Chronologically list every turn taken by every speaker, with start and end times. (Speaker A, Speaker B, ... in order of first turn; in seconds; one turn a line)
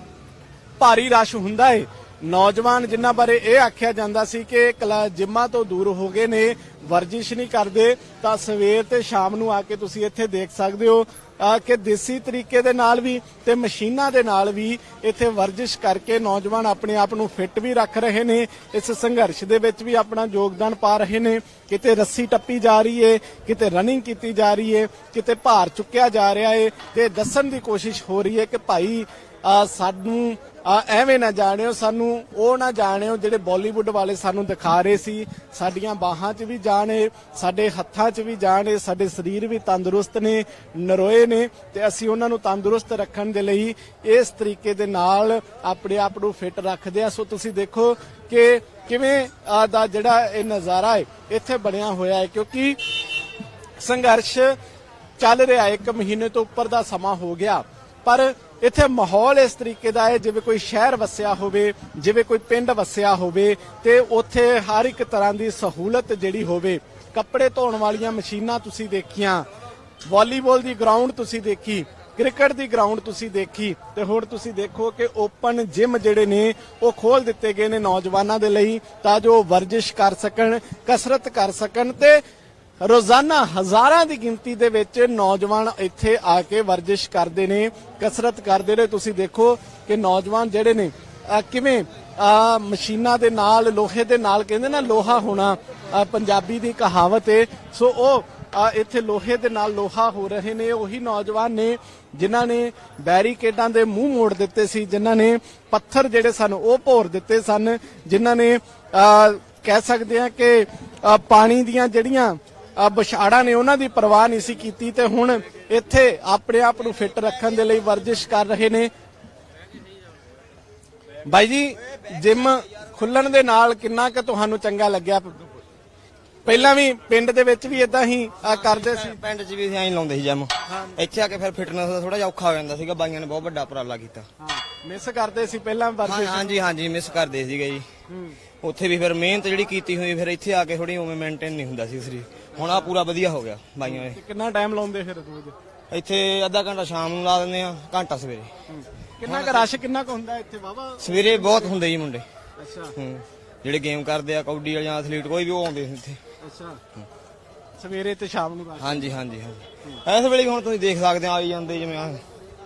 Speaker A: 0.8-52.8
Speaker A: 53.8-54.5
Speaker A: 55.2-69.5
Speaker A: 70.1-82.2
Speaker A: 82.8-118.9
Speaker A: 121.2-125.4
Speaker A: 126.4-129.2
Speaker B: 128.6-134.2
Speaker A: 130.7-131.0
Speaker A: 134.4-136.6
Speaker B: 136.0-137.8
Speaker A: 138.1-138.4
Speaker B: 138.6-144.2
Speaker A: 142.6-142.9
Speaker A: 143.8-145.6
Speaker B: 145.9-148.5
Speaker A: 148.7-151.8
Speaker B: 149.2-149.8
Speaker B: 151.0-152.2
Speaker A: 152.6-152.9
Speaker B: 152.9-156.2
Speaker A: 156.4-156.8
Speaker A: 157.8-159.1
Speaker B: 158.8-162.2